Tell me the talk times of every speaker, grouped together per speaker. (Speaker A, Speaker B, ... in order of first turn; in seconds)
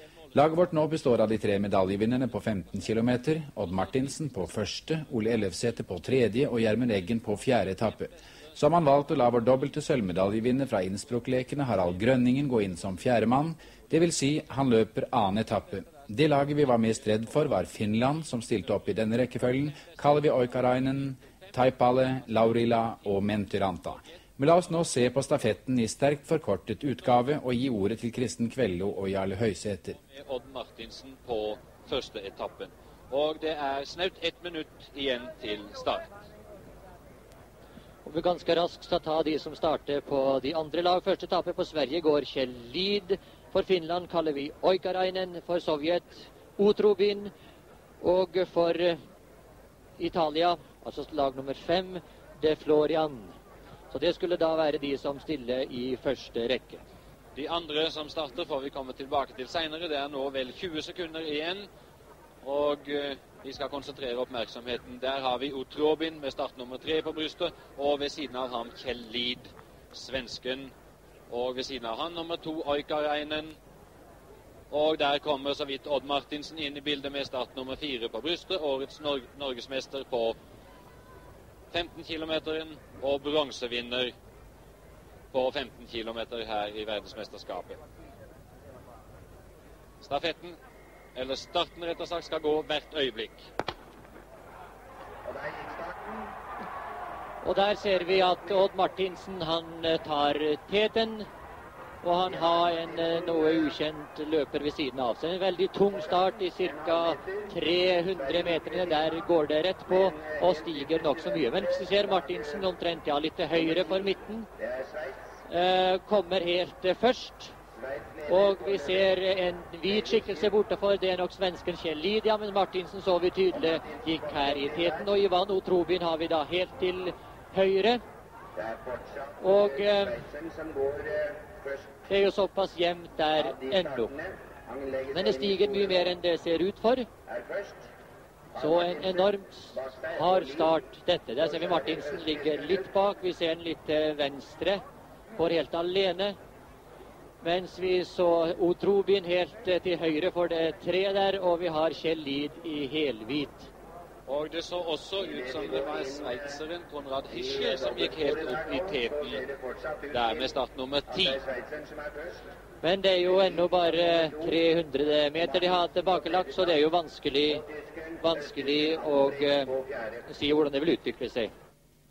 Speaker A: 0.3-30.0
Speaker B: 3.8-4.1, 6.7-12.2, 15.3-24.0, 30.0-36.1, 57.4-61.7, 62.4-70.7, 71.3-73.6, 74.7-80.4, 81.7-84.2, 85.3-87.8, 90.0-90.6, 91.2-93.5, 154.3-159.5, 160.1-161.4
Speaker C: 38.0-47.3, 48.0-49.0, 50.0-53.4, 53.9-56.8, 97.4-101.3, 102.0-114.5, 115.5-117.5, 118.3-128.0, 129.4-130.2, 132.1-134.2, 135.1-137.1, 138.6-144.8, 145.3-146.4, 147.4-153.7, 162.8-167.7, 168.2-169.7, 170.2-171.5